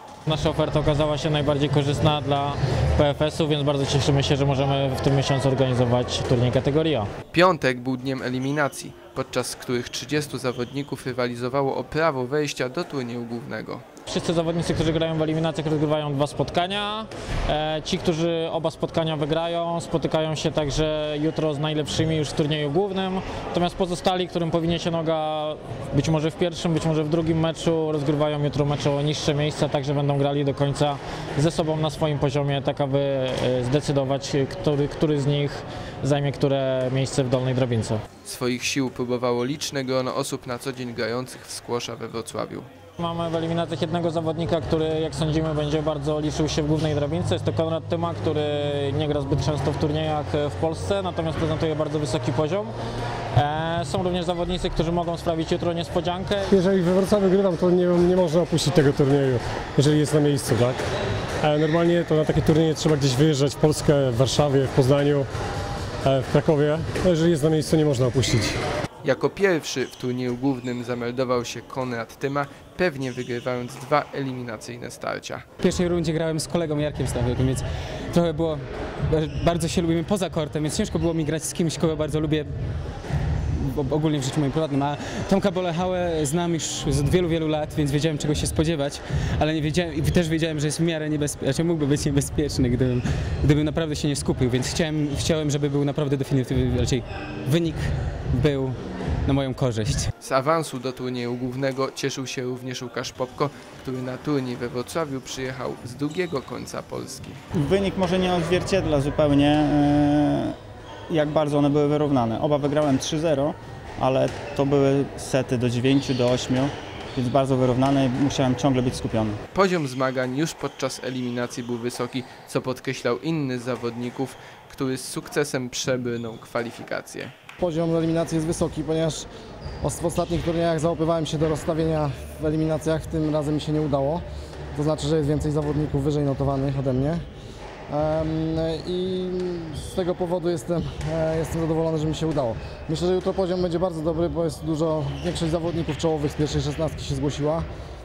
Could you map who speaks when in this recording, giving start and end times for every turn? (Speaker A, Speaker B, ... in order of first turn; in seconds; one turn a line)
Speaker A: 0.3-7.1
Speaker B: 7.3-13.8
Speaker A: 14.1-38.0
Speaker B: 38.2-42.7
Speaker A: 43.0-52.7
Speaker A: 53.3-56.5
Speaker C: 56.5-60.8
Speaker C: 61.4-65.2
Speaker C: 66.0-68.6
Speaker B: 69.0-75.4
Speaker D: 75.6-82.5
Speaker D: 83.5-100.1
Speaker B: 100.2-107.4
Speaker E: 107.5-110.5
Speaker E: 111.1-119.4
Speaker B: 119.5-127.3
Speaker F: 127.6-129.3
Speaker F: 129.8-137.2
Speaker F: 137.9-147.7